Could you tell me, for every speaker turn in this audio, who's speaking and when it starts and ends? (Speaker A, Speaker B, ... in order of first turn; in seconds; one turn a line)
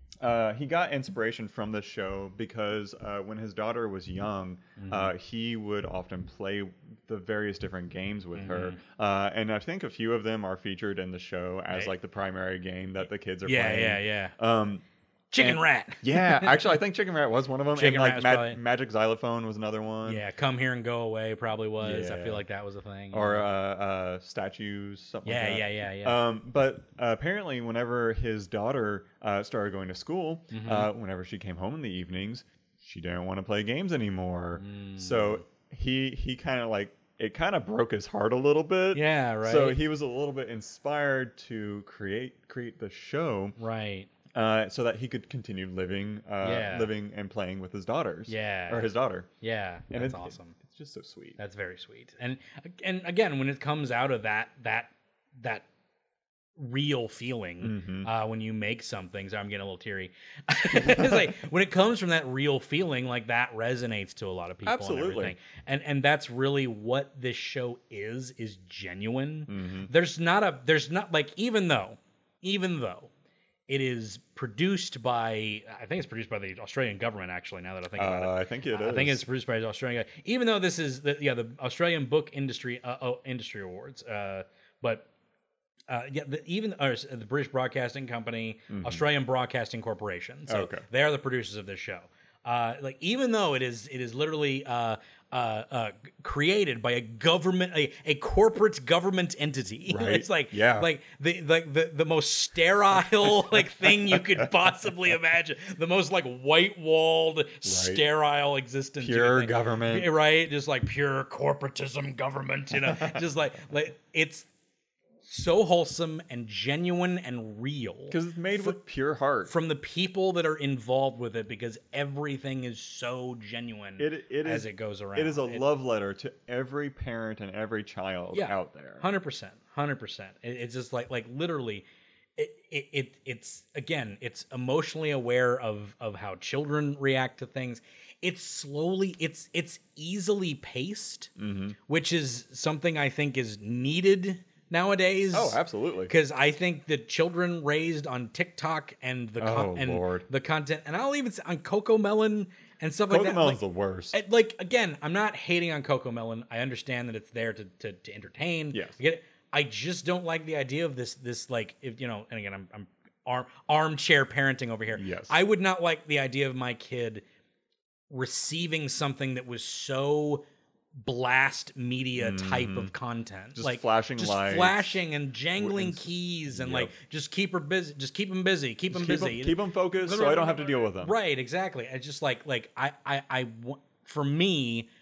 Speaker A: 0.2-14.8
Speaker B: 4.8-5.1
Speaker B: 8.3-8.8
Speaker B: 13.4-14.3
Speaker B: 15.3-16.6
Speaker A: 15.4-20.2
Speaker B: 17.8-18.6
Speaker B: 20.0-23.4
Speaker A: 21.8-22.4
Speaker A: 23.1-43.5
Speaker B: 25.2-26.2
Speaker B: 30.5-30.9
Speaker B: 34.6-35.4
Speaker B: 38.9-39.8
Speaker B: 43.6-44.1
Speaker A: 44.3-49.3
Speaker B: 46.4-46.9
Speaker B: 48.3-50.6
Speaker A: 49.9-51.4
Speaker B: 51.4-55.6
Speaker B: 56.5-73.1
Speaker A: 57.6-58.1
Speaker A: 60.7-61.3
Speaker A: 64.6-65.3
Speaker A: 69.5-69.9
Speaker B: 73.7-85.0
Speaker A: 77.9-79.2
Speaker B: 85.9-114.5
Speaker A: 88.7-89.0
Speaker A: 90.5-90.8
Speaker A: 99.9-100.9
Speaker A: 103.2-104.5
Speaker A: 107.6-108.0
Speaker A: 109.0-110.1
Speaker A: 112.7-113.2
Speaker B: 115.2-118.8
Speaker A: 118.1-119.5
Speaker B: 119.5-125.6
Speaker A: 124.0-129.0
Speaker B: 128.3-131.8
Speaker B: 132.4-141.3
Speaker A: 141.4-141.8
Speaker B: 141.9-153.6
Speaker A: 145.3-146.1
Speaker A: 149.4-150.2
Speaker A: 153.1-154.2
Speaker B: 154.1-167.2
Speaker A: 158.7-159.0
Speaker A: 164.9-165.3
Speaker B: 168.1-170.4
Speaker B: 171.0-184.9
Speaker A: 172.2-172.9
Speaker A: 173.5-175.0
Speaker A: 175.6-176.9
Speaker A: 178.9-181.1